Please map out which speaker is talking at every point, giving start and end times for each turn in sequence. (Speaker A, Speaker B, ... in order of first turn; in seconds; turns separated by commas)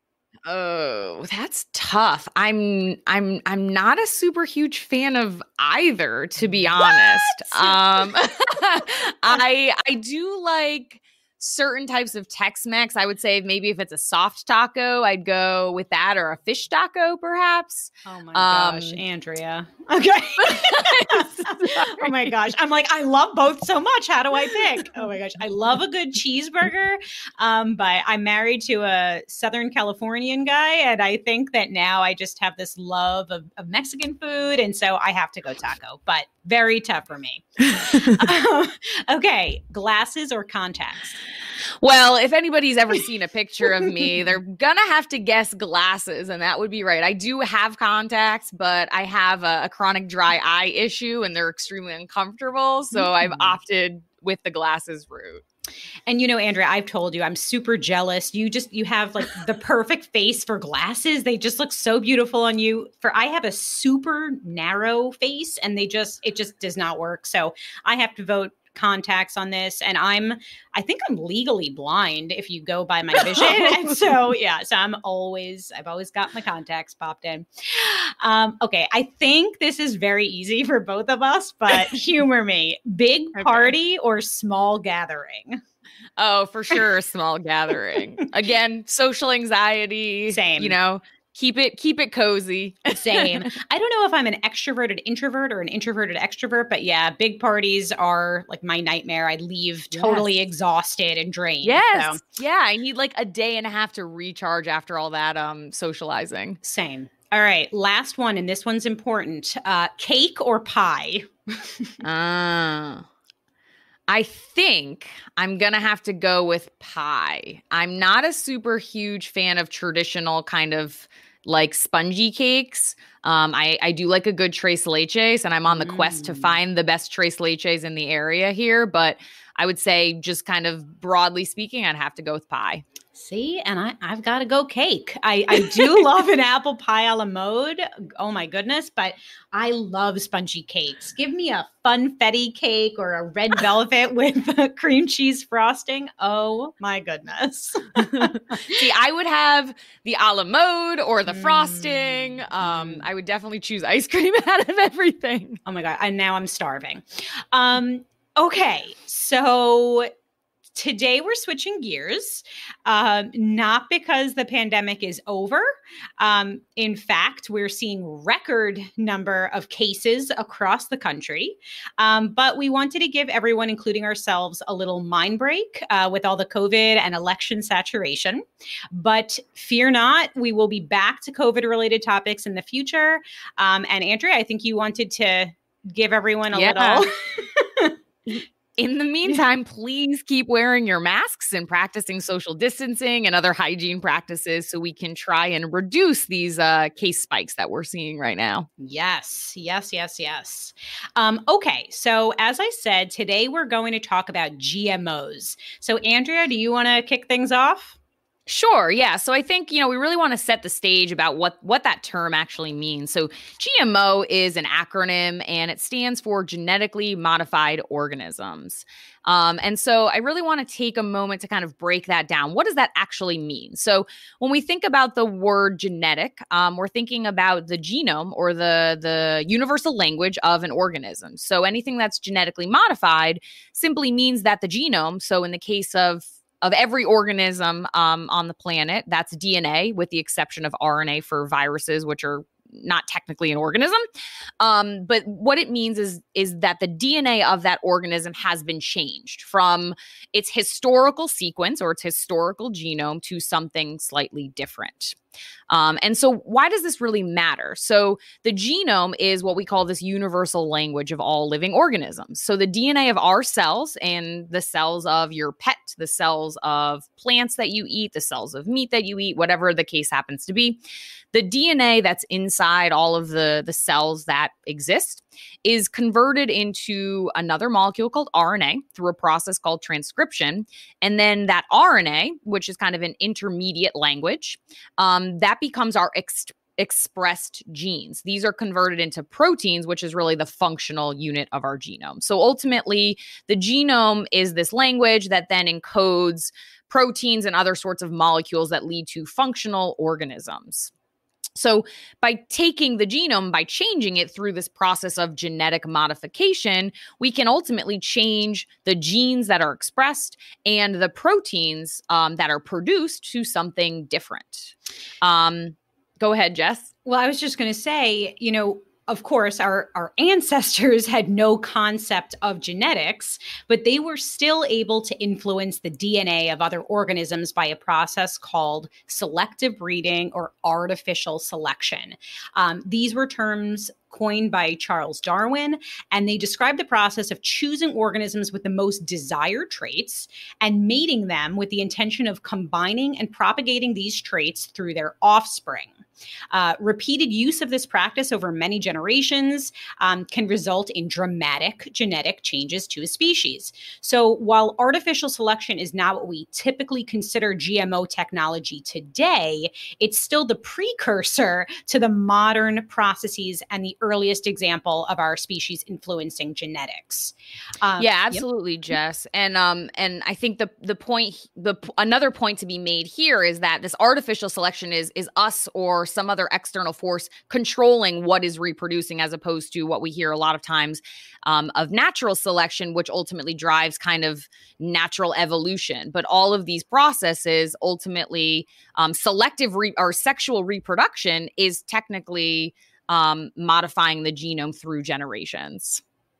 Speaker A: 0.5-19.0, Speaker B: 6.8-7.8, Speaker B: 18.1-41.2, Speaker A: 20.4-22.1, Speaker A: 41.8-55.4, Speaker B: 52.9-53.6, Speaker B: 56.1-85.6, Speaker A: 73.3-73.9, Speaker A: 83.4-83.7, Speaker A: 86.2-93.5, Speaker B: 90.3-90.8, Speaker B: 93.0-102.2, Speaker A: 99.9-100.3, Speaker A: 101.6-106.6, Speaker B: 106.6-112.0, Speaker A: 112.0-113.1, Speaker A: 114.1-132.8, Speaker B: 125.7-126.6, Speaker B: 133.2-148.8, Speaker A: 148.1-155.6, Speaker B: 151.3-153.1, Speaker B: 155.7-160.1, Speaker B: 160.8-187.9, Speaker A: 186.5-187.1, Speaker A: 188.3-198.7, Speaker B: 198.8-208.0, Speaker A: 208.5-244.0, Speaker A: 244.6-255.2, Speaker A: 255.7-270.8, Speaker A: 271.3-300.9, Speaker A: 301.6-316.9, Speaker B: 317.1-345.9, Speaker B: 346.5-368.4, Speaker A: 368.0-396.0